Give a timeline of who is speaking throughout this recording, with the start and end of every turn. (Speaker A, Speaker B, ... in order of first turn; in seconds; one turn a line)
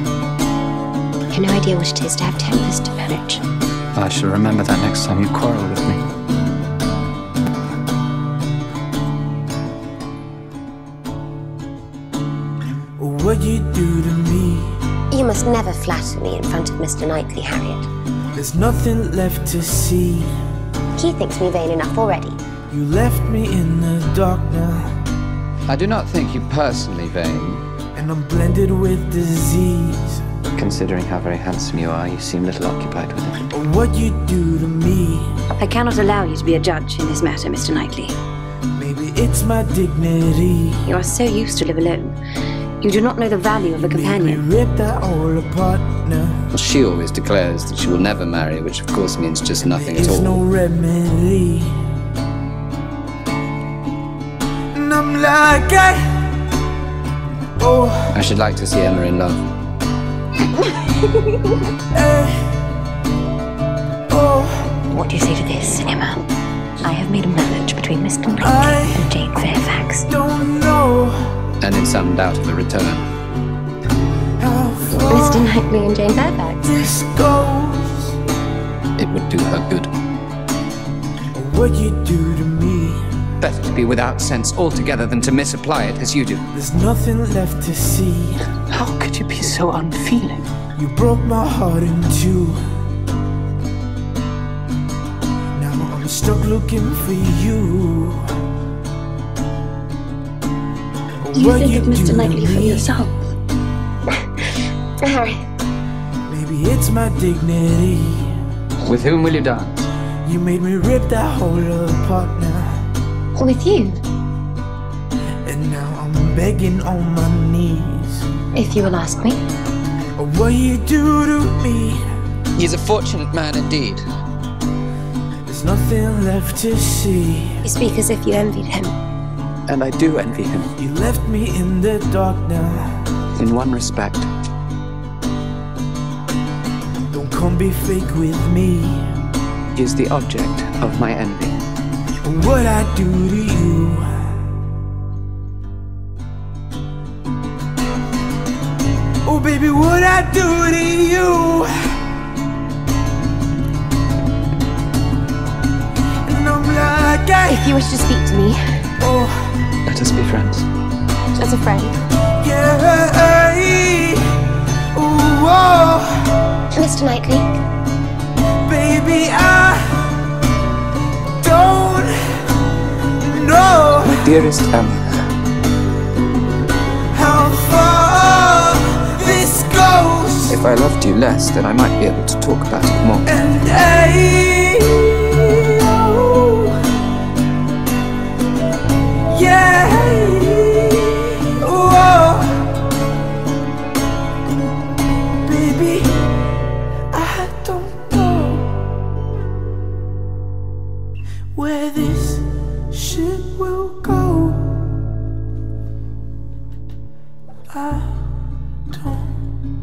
Speaker A: 1.3-3.4
Speaker B: 4.0-6.0
Speaker C: 13.0-14.8
Speaker A: 15.1-17.9
Speaker C: 18.3-20.3
Speaker A: 21.0-22.4
Speaker C: 22.7-24.9
Speaker B: 25.7-27.6
Speaker C: 27.9-30.2
Speaker B: 30.6-33.5
Speaker C: 33.5-35.4
Speaker D: 35.6-38.1
Speaker C: 38.7-40.9
Speaker D: 40.9-42.1
Speaker D: 42.8-44.4
Speaker C: 43.8-46.5
Speaker B: 46.5-50.4
Speaker C: 49.6-51.8
Speaker C: 54.7-56.4
Speaker C: 57.6-58.1
Speaker B: 58.1-59.5
Speaker C: 61.9-62.5
Speaker C: 64.1-64.8
Speaker D: 64.9-66.2
Speaker D: 66.8-70.0
Speaker C: 68.4-69.1
Speaker C: 70.1-71.4
Speaker B: 71.6-73.1
Speaker C: 74.4-75.6
Speaker A: 75.1-76.8
Speaker C: 76.6-78.1
Speaker B: 79.0-79.9
Speaker C: 81.3-83.1
Speaker B: 83.4-86.5
Speaker C: 86.5-88.4
Speaker B: 88.7-90.5
Speaker C: 90.8-92.7
Speaker C: 95.5-98.3
Speaker C: 101.2-102.9
Speaker D: 101.3-103.1
Speaker A: 105.0-105.4
Speaker C: 106.3-108.4
Speaker B: 108.8-109.9
Speaker C: 110.2-112.8
Speaker A: 113.4-114.0
Speaker C: 115.5-118.3
Speaker A: 118.5-119.4
Speaker C: 120.2-122.0
Speaker B: 122.5-124.0
Speaker C: 125.5-127.6
Speaker A: 127.6-128.9
Speaker B: 129.7-130.7
Speaker C: 130.8-133.1
Speaker B: 133.4-134.3
Speaker C: 137.1-139.1
Speaker B: 139.7-141.6
Speaker C: 142.2-144.3
Speaker C: 149.2-152.0
Speaker C: 156.2-157.8
Speaker A: 157.5-158.8
Speaker C: 159.0-159.5
Speaker B: 159.9-160.7
Speaker A: 161.4-161.9
Speaker C: 162.4-166.4
Speaker A: 166.7-167.6
Speaker C: 168.6-170.2
Speaker C: 171.4-172.6
Speaker C: 173.2-174.3
Speaker B: 174.0-175.0
Speaker C: 177.1-180.6
Speaker B: 180.5-183.4
Speaker C: 183.3-186.8
Speaker C: 189.3-192.8
Speaker C: 195.4-196.4
Speaker C: 197.1-198.8
Speaker C: 201.6-204.8
Speaker C: 207.7-208.4
Speaker C: 208.9-209.4